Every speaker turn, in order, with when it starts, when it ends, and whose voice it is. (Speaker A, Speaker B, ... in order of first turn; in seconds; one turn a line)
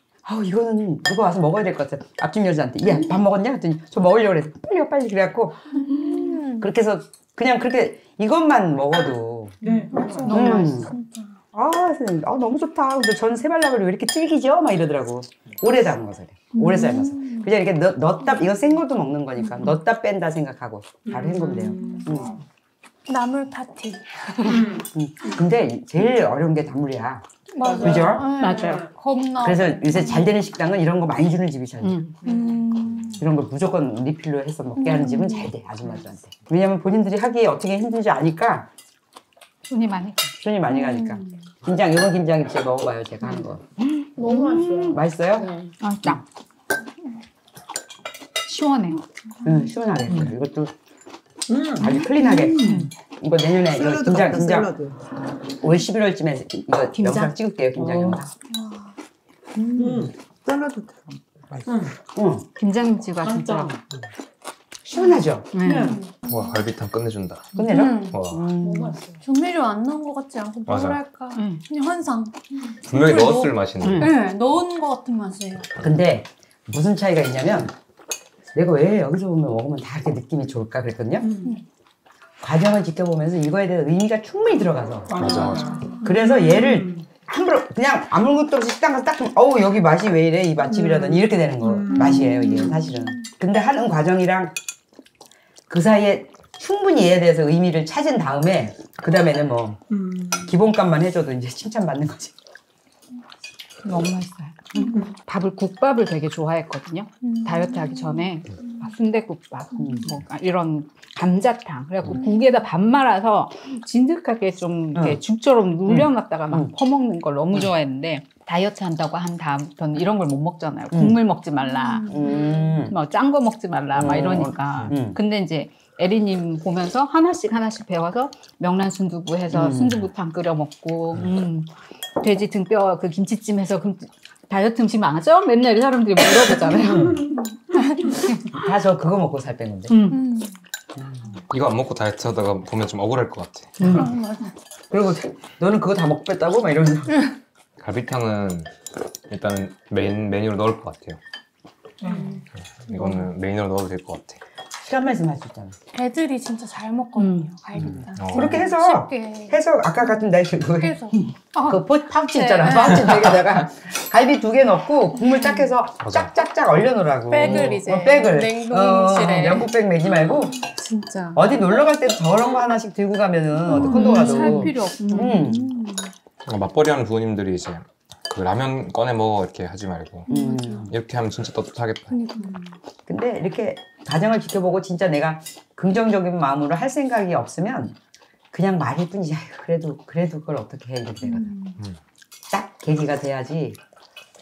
Speaker A: 0.2-9.6
Speaker B: 5.9-6.7
Speaker C: 9.6-10.5
Speaker B: 9.6-11.4
Speaker D: 10.3-10.8
Speaker A: 10.3-10.9
Speaker A: 11.5-22.3
Speaker B: 16.5-17.5
Speaker C: 21.0-22.4
Speaker B: 21.5-22.1
Speaker B: 23.1-24.8
Speaker C: 24.4-25.4
Speaker A: 24.9-27.3
Speaker B: 27.5-30.4
Speaker C: 27.6-28.9
Speaker A: 27.8-28.3
Speaker D: 28.4-28.8
Speaker A: 29.4-32.0
Speaker D: 31.8-32.2
Speaker B: 32.2-33.2
Speaker C: 32.2-32.6
Speaker A: 33.1-38.7
Speaker B: 34.8-35.5
Speaker D: 39.7-40.3
Speaker A: 40.4-43.6
Speaker B: 40.7-41.2
Speaker D: 44.0-45.0
Speaker B: 44.2-45.0
Speaker E: 44.2-44.7
Speaker A: 44.7-46.2
Speaker D: 45.8-46.2
Speaker D: 48.5-49.0
Speaker A: 49.4-50.7
Speaker C: 51.5-51.9
Speaker A: 51.8-54.7
Speaker E: 52.0-52.9
Speaker D: 52.6-52.9
Speaker E: 53.7-55.0
Speaker A: 55.6-58.3
Speaker E: 56.9-58.1
Speaker E: 59.5-61.6
Speaker C: 59.8-60.1
Speaker C: 61.6-61.9
Speaker A: 62.1-62.5
Speaker D: 62.6-63.7
Speaker C: 63.2-63.8
Speaker A: 64.8-65.5
Speaker D: 65.5-66.0
Speaker C: 65.6-66.0
Speaker B: 65.8-66.3
Speaker F: 66.2-68.4
Speaker A: 67.5-69.0
Speaker B: 67.6-75.7
Speaker F: 70.7-71.0
Speaker D: 71.3-71.6
Speaker F: 72.8-74.1
Speaker D: 73.8-74.1
Speaker A: 75.8-77.7
Speaker A: 78.5-81.3
Speaker C: 81.2-81.6
Speaker A: 82.4-94.5
Speaker C: 85.1-87.1
Speaker F: 85.2-85.7
Speaker B: 85.6-86.0
Speaker C: 90.7-92.8
Speaker B: 91.9-93.1
Speaker A: 95.7-99.8
Speaker C: 99.9-100.5
Speaker A: 100.4-102.3
Speaker D: 103.8-122.2
Speaker B: 104.8-105.1
Speaker B: 107.2-108.9
Speaker A: 109.8-110.1
Speaker A: 114.9-115.2
Speaker A: 115.8-116.7
Speaker A: 120.9-121.2
Speaker B: 121.6-122.6
Speaker A: 122.1-123.0
Speaker C: 122.2-122.7
Speaker D: 122.9-138.6
Speaker A: 123.9-125.2
Speaker A: 129.5-130.1
Speaker A: 138.5-140.0
Speaker D: 139.9-140.2
Speaker B: 140.1-140.5
Speaker A: 141.0-141.3
Speaker F: 141.5-143.8
Speaker D: 143.8-144.1
Speaker A: 143.8-144.1
Speaker B: 143.9-144.5
Speaker A: 144.9-147.2
Speaker F: 147.8-148.7
Speaker F: 149.3-151.2
Speaker C: 152.0-152.4
Speaker B: 152.0-153.2
Speaker F: 152.8-154.4
Speaker A: 154.8-155.8
Speaker B: 155.9-160.0
Speaker D: 157.2-157.5
Speaker F: 157.7-158.7
Speaker A: 158.3-161.0
Speaker B: 160.8-161.8
Speaker A: 161.6-170.6
Speaker D: 162.4-162.9
Speaker B: 162.5-163.2
Speaker F: 166.0-166.3
Speaker B: 167.3-169.7
Speaker B: 170.3-171.4
Speaker D: 170.8-171.3
Speaker A: 171.3-175.7
Speaker B: 173.7-176.1
Speaker D: 173.8-175.6
Speaker F: 176.4-180.3
Speaker B: 180.3-180.8
Speaker A: 180.3-180.9
Speaker F: 180.8-182.2
Speaker B: 182.1-182.5
Speaker C: 182.4-182.7
Speaker A: 183.1-188.0
Speaker A: 188.5-191.5
Speaker B: 191.3-191.8
Speaker A: 192.5-193.8